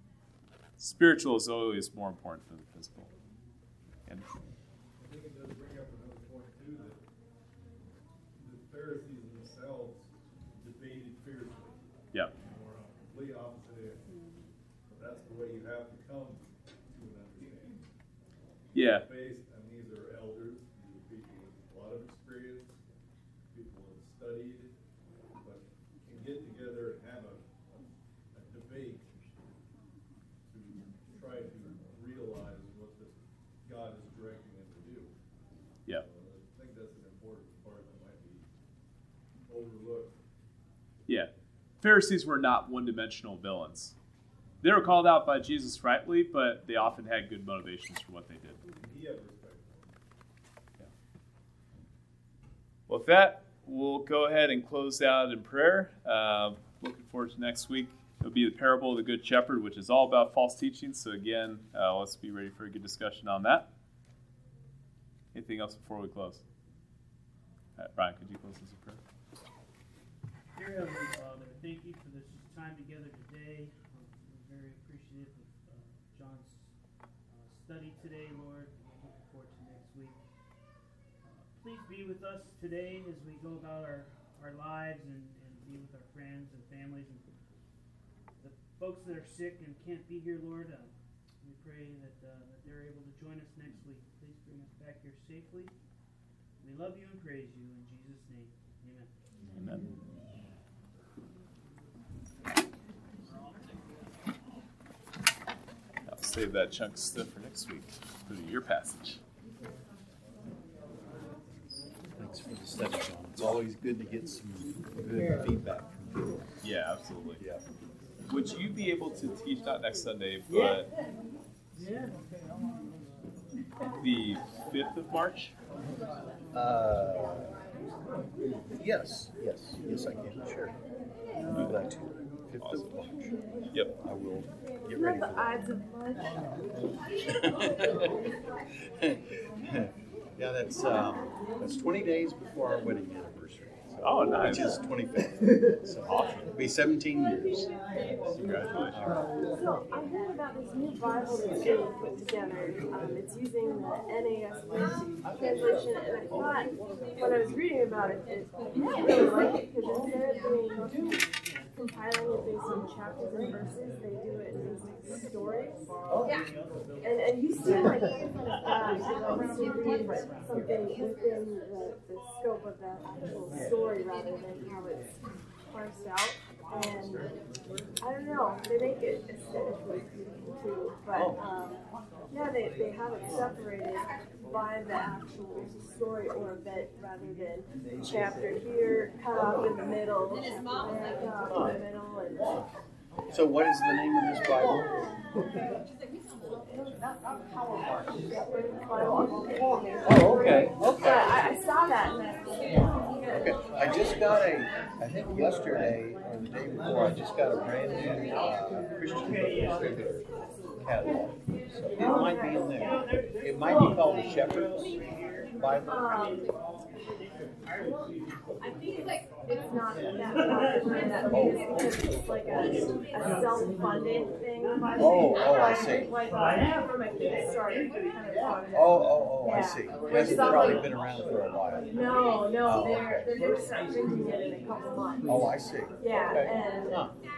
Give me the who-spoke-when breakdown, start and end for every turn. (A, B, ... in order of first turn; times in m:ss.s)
0:00.8-0:03.1 A
0:05.0-0:07.0 B
0:08.4-0:11.8 B
0:12.3-0:14.0 B
0:14.9-0:17.8 B
0:18.7-0:19.0 A
0:18.8-0:22.7 B
0:23.5-0:24.7 B
0:25.4-0:29.1 B
0:30.5-0:35.1 B
0:35.9-0:38.4 B
0:39.5-0:40.2 B
0:41.8-0:43.9 A
0:44.6-0:48.6 A
0:48.6-0:50.0 B
0:52.9-1:03.7 A
1:05.3-1:06.4 A
1:07.8-1:09.0 A
1:10.5-1:16.8 C
1:17.3-1:20.2 C
1:21.2-1:27.2 C
1:28.4-1:35.7 C
1:36.6-1:39.1 C
1:39.5-1:39.9 A
1:46.1-1:49.2 A
1:52.2-1:56.2 D
1:56.6-1:57.4 A
1:57.4-1:57.6 D
1:58.3-2:00.9 A
2:04.0-2:05.5 A
2:06.5-2:07.5 D
2:08.7-2:10.7 D
2:11.5-2:13.4 D
2:12.6-2:12.9 A
2:14.0-2:15.6 D
2:15.0-2:16.4 E
2:17.4-2:18.0 D
2:19.0-2:27.7 D
2:24.0-2:24.7 A
2:26.1-2:26.5 A
2:28.3-2:29.3 D
2:28.4-2:29.0 A
2:29.6-2:45.9 E
2:47.0-2:55.2 E
2:55.7-2:57.3 E
2:58.0-3:12.6 E
3:11.5-3:11.8 D
3:13.3-3:14.9 D
3:17.9-3:23.4 E
3:20.0-3:21.3 D
3:23.3-3:36.4 D
3:35.9-3:36.4 E
3:38.6-3:50.9 E
3:41.3-3:41.6 D
3:45.0-3:46.1 D
3:48.7-3:51.9 D
3:51.9-3:57.0 E
3:52.6-3:53.3 D
3:55.3-3:57.1 D